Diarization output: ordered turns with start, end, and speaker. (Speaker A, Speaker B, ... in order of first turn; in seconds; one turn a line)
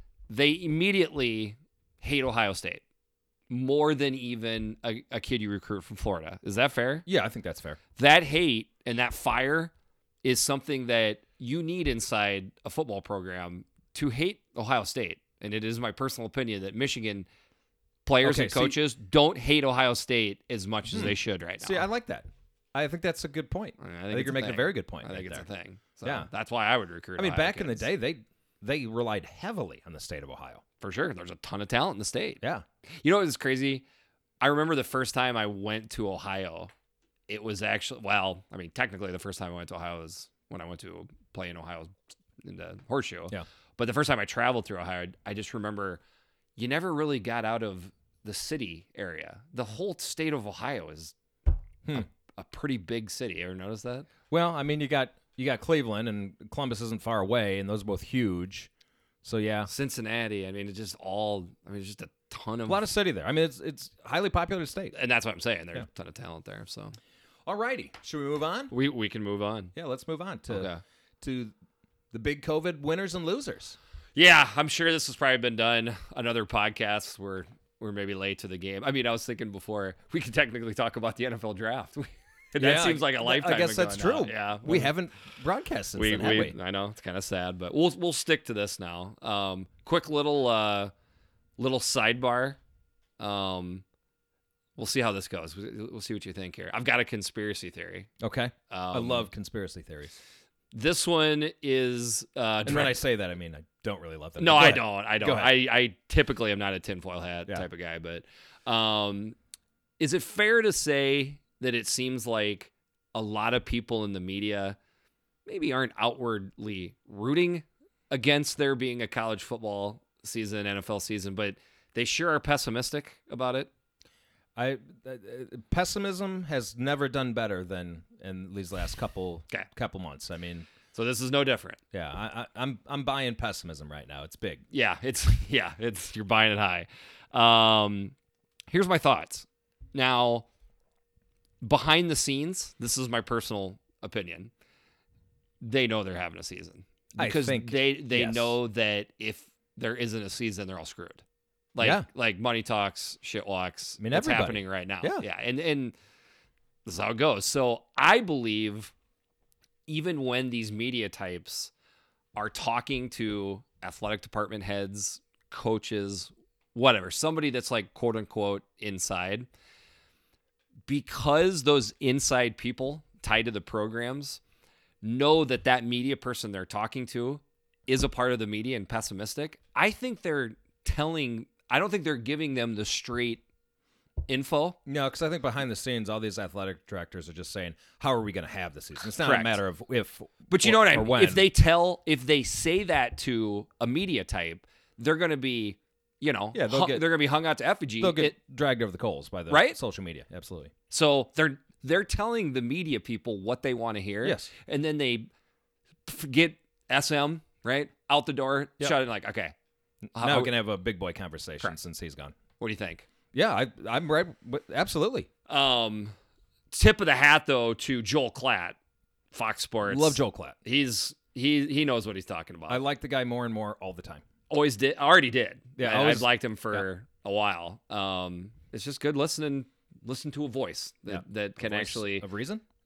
Speaker A: 0.3-2.8
Speaker A: 3.5-7.1
Speaker B: 7.1-7.8
Speaker A: 8.0-9.7
Speaker A: 10.2-17.3
Speaker A: 18.1-21.9
Speaker B: 18.2-18.8
Speaker B: 20.9-25.5
Speaker A: 23.8-27.9
Speaker B: 26.0-26.3
Speaker B: 27.2-30.6
Speaker A: 30.8-33.9
Speaker A: 34.4-36.7
Speaker A: 37.3-46.0
Speaker A: 46.6-51.1
Speaker A: 52.3-54.1
Speaker B: 54.3-58.7
Speaker B: 59.2-59.7
Speaker A: 59.7-62.9
Speaker B: 62.7-64.9
Speaker A: 64.9-67.0
Speaker B: 67.5-68.7
Speaker A: 68.7-69.7
Speaker B: 69.8-70.7
Speaker A: 70.5-70.8
Speaker B: 71.2-71.5
Speaker B: 72.1-73.8
Speaker A: 74.2-84.9
Speaker B: 82.6-86.5
Speaker A: 86.0-90.9
Speaker A: 91.6-92.6
Speaker A: 93.2-93.8
Speaker A: 94.8-98.1
Speaker B: 98.2-100.2
Speaker A: 98.7-99.3
Speaker A: 100.7-103.0
Speaker B: 102.7-105.5
Speaker A: 104.4-109.3
Speaker A: 110.0-114.8
Speaker A: 115.5-123.7
Speaker B: 124.6-130.7
Speaker A: 130.9-131.8
Speaker B: 131.9-134.6
Speaker A: 134.7-138.2
Speaker A: 138.7-140.5
Speaker A: 141.6-144.5
Speaker A: 145.6-151.2
Speaker B: 147.2-148.6
Speaker A: 151.8-156.0
Speaker B: 151.8-152.1
Speaker B: 154.0-155.2
Speaker A: 156.8-158.9
Speaker A: 159.9-161.7
Speaker A: 162.3-169.5
Speaker A: 170.9-174.4
Speaker A: 175.0-183.4
Speaker A: 184.3-184.8
Speaker B: 184.9-191.5
Speaker A: 189.2-189.6
Speaker A: 190.5-198.3
Speaker B: 196.5-197.1
Speaker B: 198.0-200.7
Speaker A: 199.5-199.8
Speaker A: 200.9-205.3
Speaker B: 204.2-204.5
Speaker A: 206.1-209.5
Speaker A: 210.2-210.5
Speaker B: 210.2-212.3
Speaker A: 212.6-213.1
Speaker B: 213.3-215.3
Speaker A: 215.5-216.1
Speaker A: 216.7-218.8
Speaker A: 219.3-222.8
Speaker B: 219.9-220.6
Speaker B: 222.7-224.2
Speaker A: 224.5-232.2
Speaker B: 225.8-226.9
Speaker B: 231.1-232.6